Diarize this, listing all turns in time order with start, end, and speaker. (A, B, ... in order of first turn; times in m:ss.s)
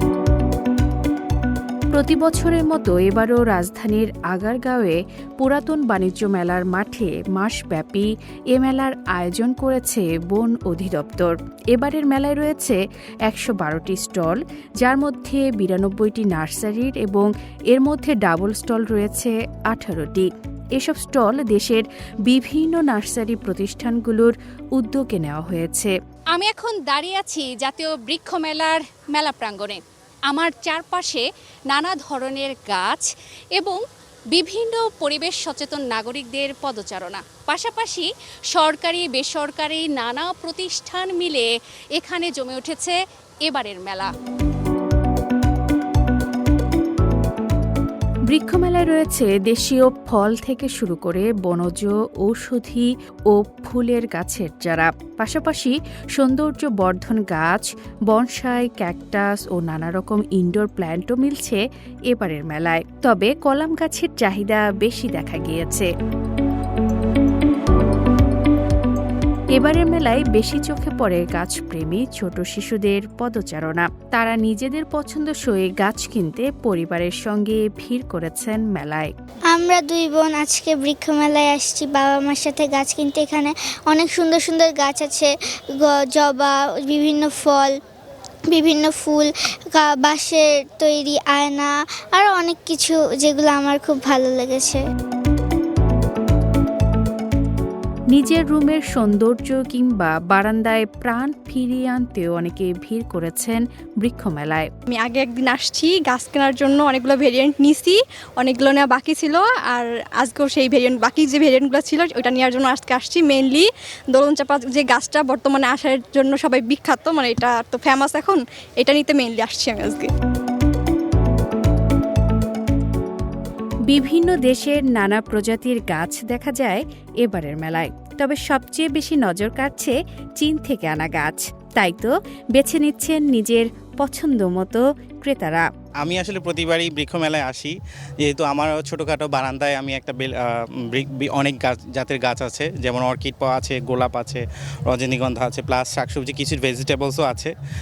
0:01.9-0:25.9 A
0:26.3-0:33.8 B
0:34.3-0:44.1 B
0:48.3-1:05.9 A
1:09.5-1:19.1 A
1:19.5-1:27.8 C
1:28.5-1:34.8 C
1:38.1-1:44.7 A
1:44.9-2:00.1 D
2:03.9-2:15.6 A
2:16.0-2:27.5 E